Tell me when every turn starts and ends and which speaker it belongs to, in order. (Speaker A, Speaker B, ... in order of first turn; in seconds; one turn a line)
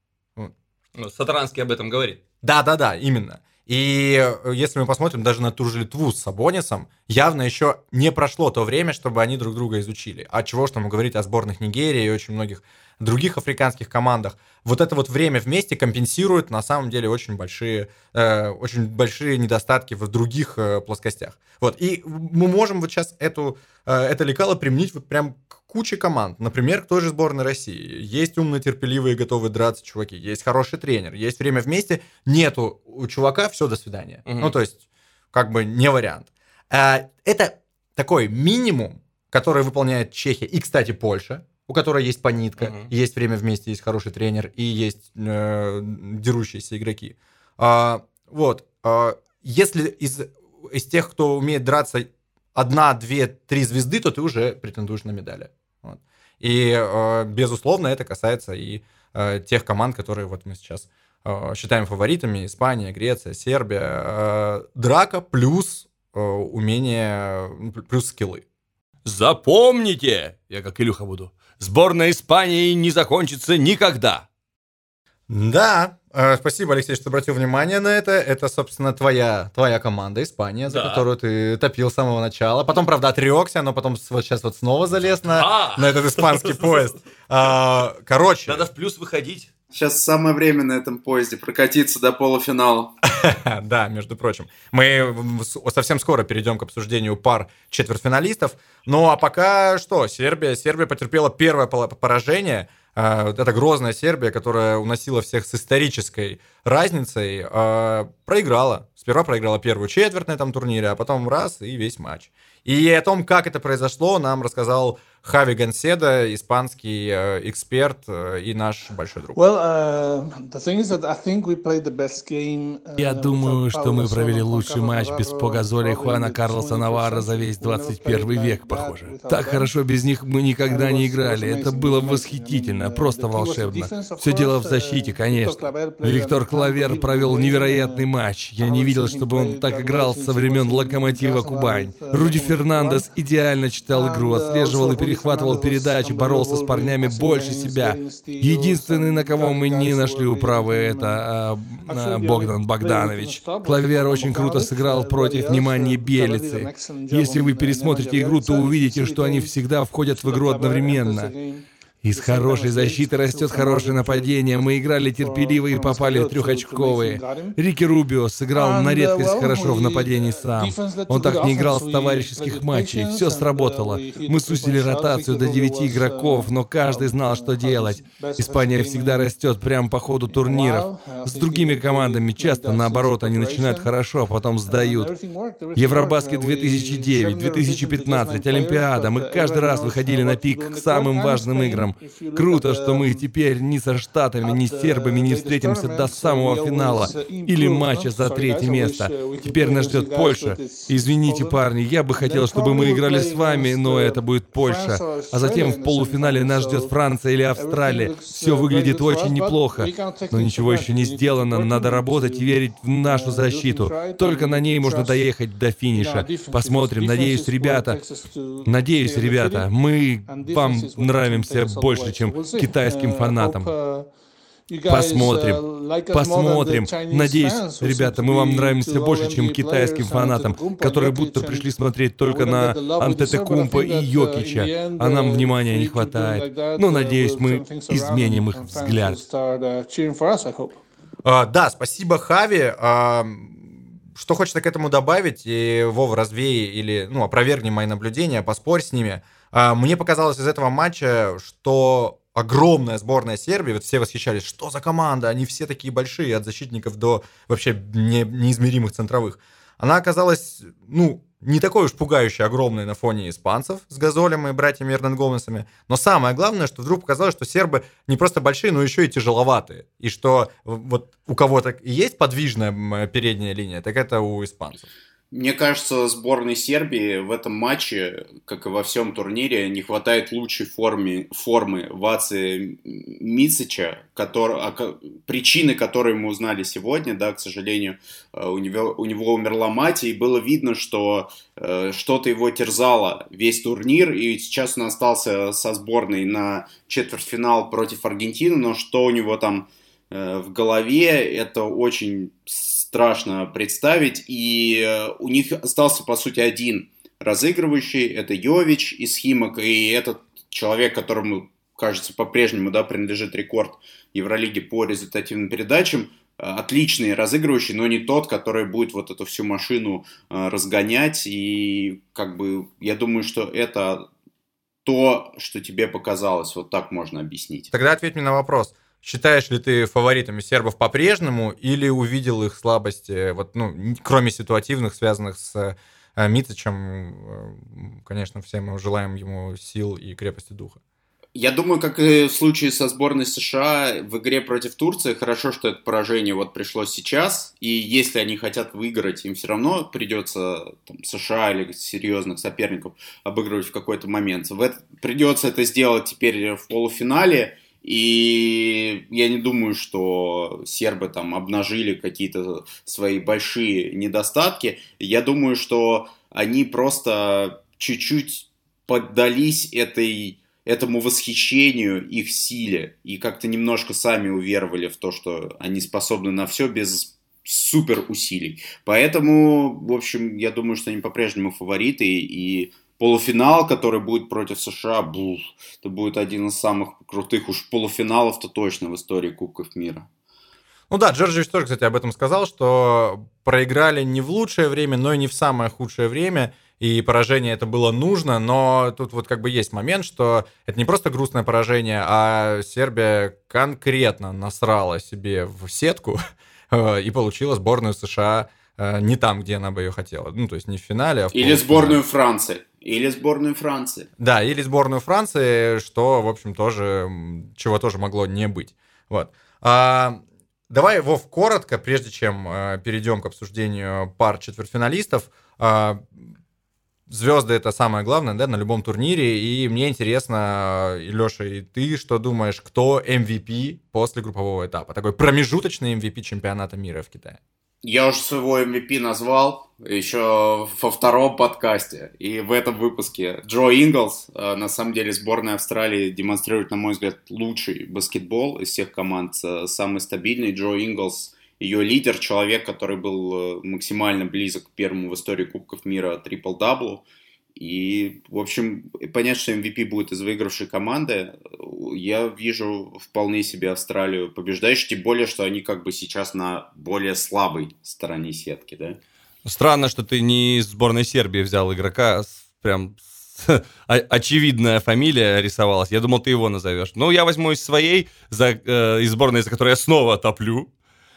Speaker A: 0.9-2.2
Speaker B: 2.4-34.8
Speaker A: 34.2-34.5
Speaker B: 35.3-68.4
Speaker A: 42.6-42.9
Speaker A: 69.0-74.2
Speaker B: 75.3-88.7
Speaker A: 80.7-81.0
Speaker A: 85.3-86.9
Speaker A: 88.5-89.5
Speaker C: 89.7-92.9
Speaker B: 93.1-119.4
Speaker D: 119.4-129.7
Speaker E: 123.0-161.3
Speaker D: 130.6-143.1
Speaker D: 143.9-151.2
Speaker D: 151.9-167.6
Speaker E: 162.0-185.1
Speaker D: 168.5-179.3
Speaker D: 180.3-183.9
Speaker D: 184.7-193.3
Speaker E: 185.8-218.0
Speaker D: 194.4-207.0
Speaker D: 207.5-215.3
Speaker D: 215.9-219.7
Speaker E: 218.7-223.7
Speaker D: 220.2-224.1
Speaker D: 224.7-240.8
Speaker E: 224.8-239.2
Speaker B: 241.2-274.9
Speaker C: 275.3-324.1
Speaker C: 324.9-327.7
Speaker B: 327.7-340.8
Speaker C: 341.4-390.1
Speaker B: 390.9-406.2
Speaker B: 406.7-412.0
Speaker C: 411.3-414.1
Speaker B: 414.2-426.3
Speaker B: 427.1-437.4
Speaker C: 437.8-457.0
Speaker C: 457.6-469.0
Speaker A: 469.4-480.7